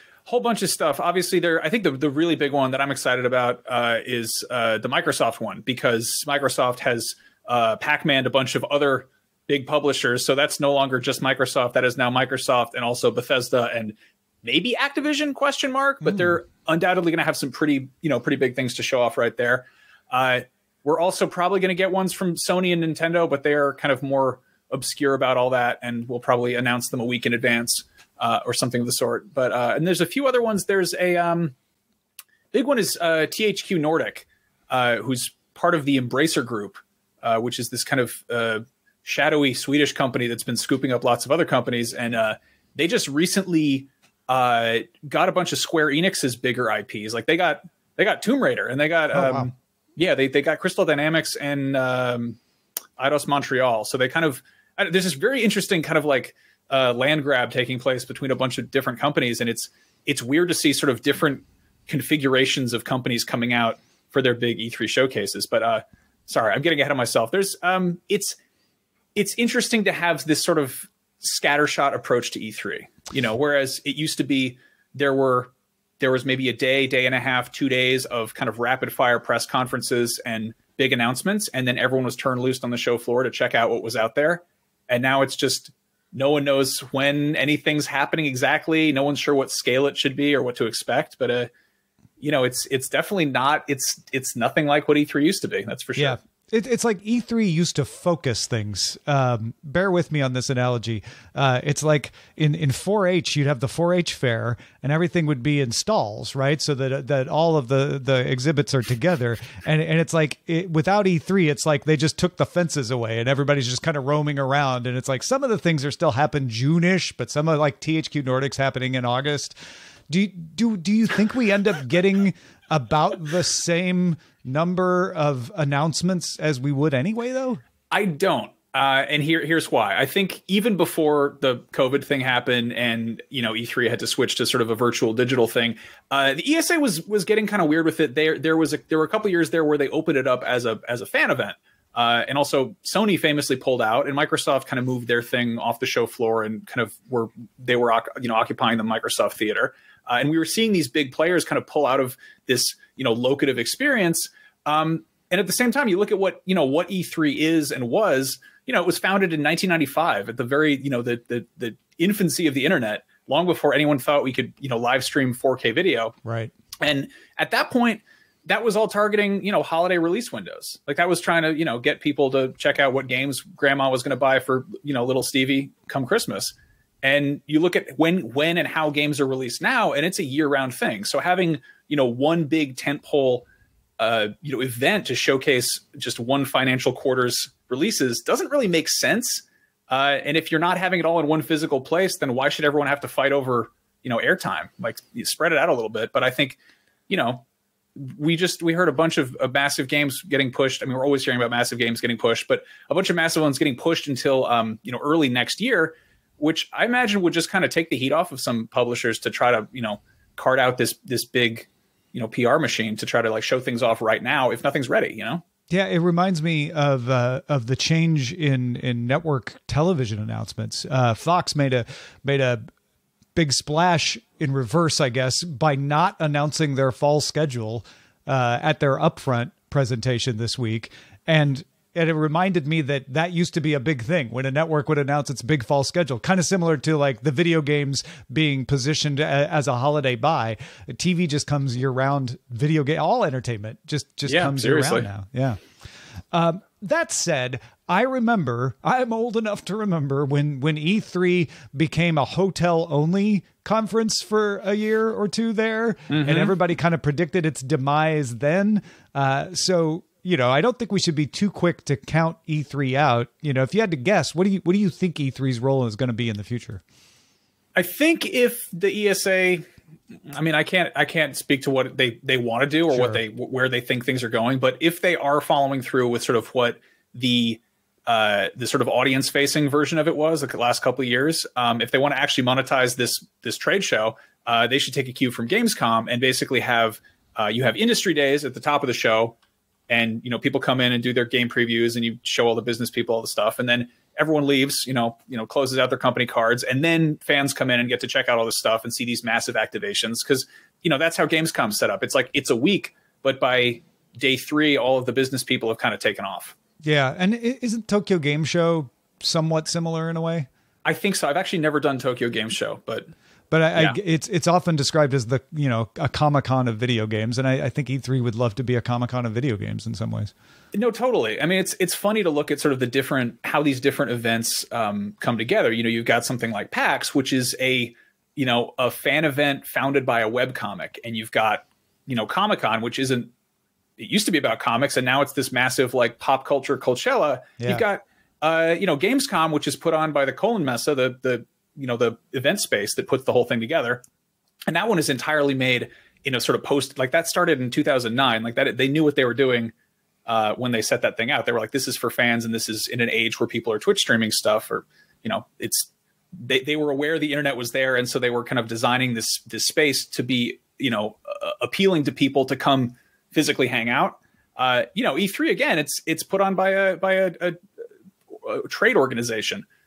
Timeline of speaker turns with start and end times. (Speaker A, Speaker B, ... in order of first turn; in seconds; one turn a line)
Speaker A: 0.2-31.5
Speaker A: 32.5-52.4
Speaker B: 49.1-49.5
Speaker A: 53.0-68.4
Speaker A: 69.1-91.5
Speaker A: 92.2-96.2
Speaker B: 96.0-119.5
Speaker B: 120.1-127.6
Speaker A: 127.9-166.2
Speaker B: 166.2-166.5
Speaker A: 166.8-183.4
Speaker A: 184.0-196.6
Speaker A: 197.1-197.4
Speaker A: 197.9-215.4
Speaker B: 215.7-222.7
Speaker B: 223.3-245.6
Speaker A: 244.2-245.1
Speaker B: 246.3-266.8
Speaker A: 256.1-256.5
Speaker A: 267.7-269.6
Speaker A: 270.3-289.4
Speaker B: 272.9-273.2
Speaker A: 289.9-306.5
Speaker B: 306.8-310.5
Speaker A: 310.8-313.1
Speaker B: 313.5-320.3
Speaker A: 320.7-333.3
Speaker A: 334.0-344.0
Speaker B: 337.6-337.8
Speaker A: 344.7-349.7
Speaker A: 350.2-367.6
Speaker A: 368.3-369.6